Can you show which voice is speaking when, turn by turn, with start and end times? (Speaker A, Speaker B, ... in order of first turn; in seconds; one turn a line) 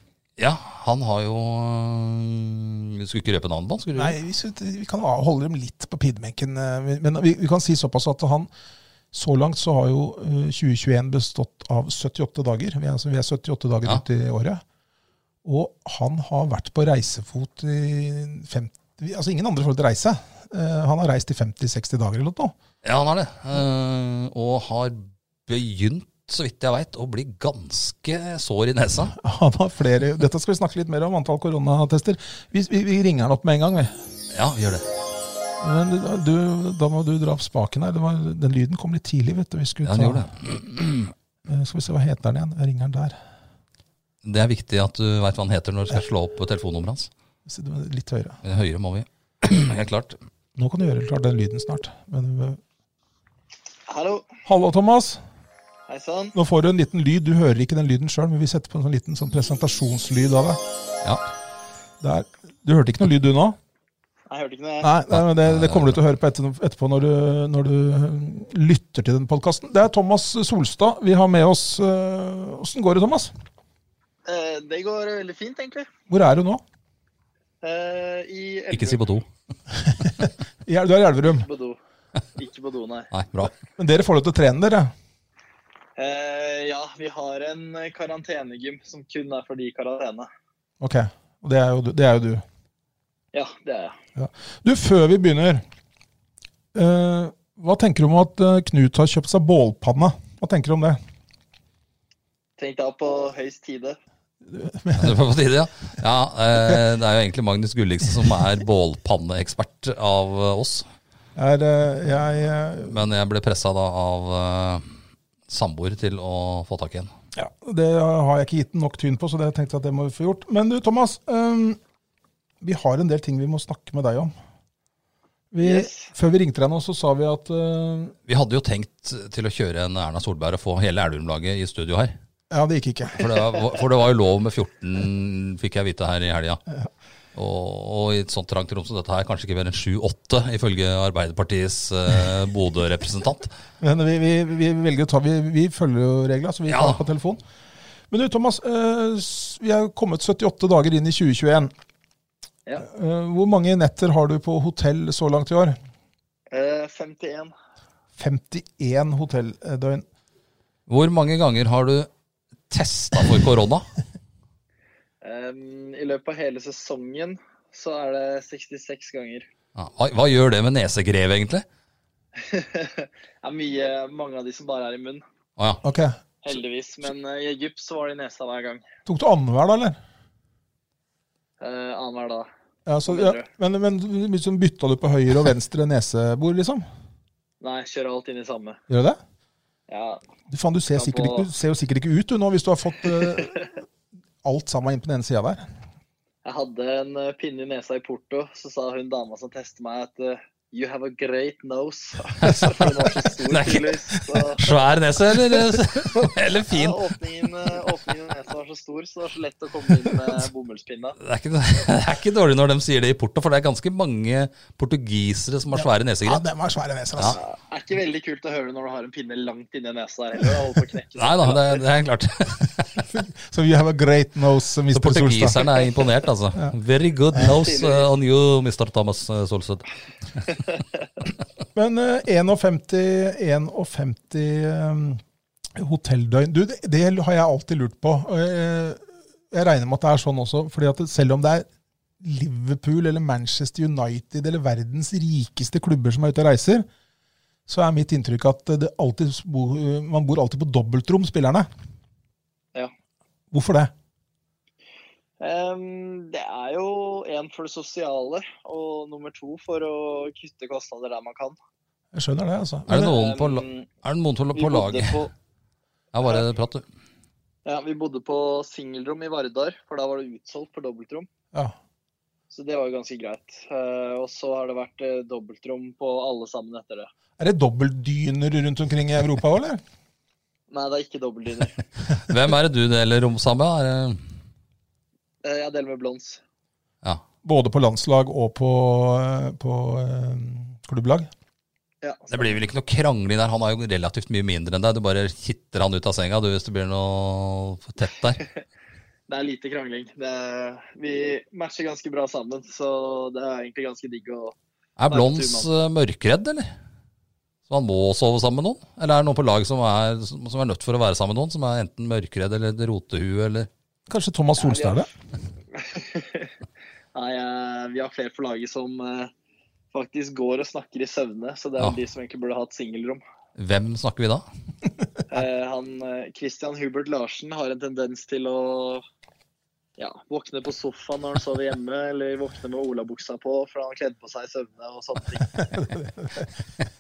Speaker A: 0.4-4.2
Speaker B: 4.0-8.5
Speaker B: 9.1-14.6
Speaker B: 15.4-22.6
Speaker A: 22.8-29.1
Speaker B: 29.1-33.9
Speaker A: 34.3-34.9
Speaker B: 35.6-40.3
Speaker A: 39.8-41.1
Speaker B: 41.5-43.2
Speaker A: 44.2-47.1
Speaker B: 47.5-48.4
Speaker A: 48.4-50.2
Speaker B: 50.6-52.6
Speaker C: 53.9-54.3
Speaker B: 54.5-55.2
Speaker C: 55.9-56.4
Speaker B: 56.3-60.6
Speaker B: 62.0-63.6
Speaker C: 64.3-64.9
Speaker B: 64.8-73.3
Speaker A: 65.1-66.0
Speaker C: 74.3-75.9
Speaker B: 76.1-76.6
Speaker C: 77.6-79.0
Speaker A: 78.7-79.3
Speaker B: 79.9-81.5
Speaker C: 81.3-81.8
Speaker C: 82.4-83.1
Speaker A: 83.1-83.5
Speaker B: 83.8-84.9
Speaker C: 86.0-90.3
Speaker B: 90.8-92.4
Speaker C: 93.3-94.0
Speaker B: 94.2-95.6
Speaker B: 96.7-101.0
Speaker C: 102.6-104.0
Speaker B: 104.4-105.2
Speaker A: 105.0-110.9
Speaker B: 111.4-113.0
Speaker A: 112.9-115.0
Speaker A: 115.5-117.1
Speaker B: 117.3-121.8
Speaker B: 122.6-124.3
Speaker B: 125.5-128.2
Speaker C: 125.6-126.1
Speaker A: 128.3-132.2
Speaker B: 132.5-133.3
Speaker A: 133.1-136.6
Speaker A: 137.3-143.5
Speaker B: 143.8-147.4
Speaker A: 146.7-147.0
Speaker B: 148.1-151.7
Speaker B: 152.8-155.8
Speaker C: 156.5-157.5
Speaker B: 158.2-160.1
Speaker A: 160.9-162.1
Speaker A: 162.7-163.9
Speaker C: 165.2-169.5
Speaker A: 169.8-171.7
Speaker C: 172.4-175.2
Speaker B: 175.8-176.2
Speaker C: 176.4-178.8
Speaker B: 179.1-180.0
Speaker C: 181.6-182.5
Speaker B: 182.9-186.8
Speaker C: 183.1-183.5
Speaker C: 187.6-188.8
Speaker B: 188.9-189.2
Speaker C: 189.9-190.2
Speaker B: 190.5-193.8
Speaker C: 190.9-191.5
Speaker B: 194.4-195.7
Speaker C: 196.4-204.7
Speaker A: 202.4-202.8
Speaker A: 203.5-204.0
Speaker A: 204.6-207.0
Speaker C: 206.7-211.2
Speaker A: 211.2-216.4
Speaker B: 215.7-217.4
Speaker C: 217.3-221.8
Speaker A: 221.2-223.1
Speaker B: 223.1-225.6
Speaker A: 224.9-229.9
Speaker C: 227.5-228.1
Speaker B: 231.8-235.2
Speaker B: 235.8-241.7
Speaker B: 242.2-246.9
Speaker B: 247.7-251.7
Speaker B: 253.5-253.9
Speaker C: 255.4-261.6
Speaker B: 262.1-263.1
Speaker A: 262.9-265.2
Speaker C: 262.9-263.9
Speaker C: 264.6-265.3
Speaker A: 266.1-266.9
Speaker C: 267.6-271.3
Speaker C: 272.5-277.1
Speaker B: 277.4-279.8
Speaker C: 280.7-281.8
Speaker A: 282.2-284.2
Speaker C: 285.4-286.4
Speaker B: 287.4-291.3
Speaker C: 292.0-292.6
Speaker A: 292.3-298.4
Speaker C: 299.3-304.6
Speaker A: 305.0-306.7
Speaker C: 305.1-305.7
Speaker A: 307.7-313.7
Speaker B: 314.1-315.1
Speaker C: 314.6-315.1
Speaker C: 315.7-316.5
Speaker C: 317.1-319.3
Speaker C: 319.9-323.2
Speaker A: 323.6-324.4
Speaker C: 325.3-329.0
Speaker C: 330.0-335.5
Speaker B: 335.6-336.5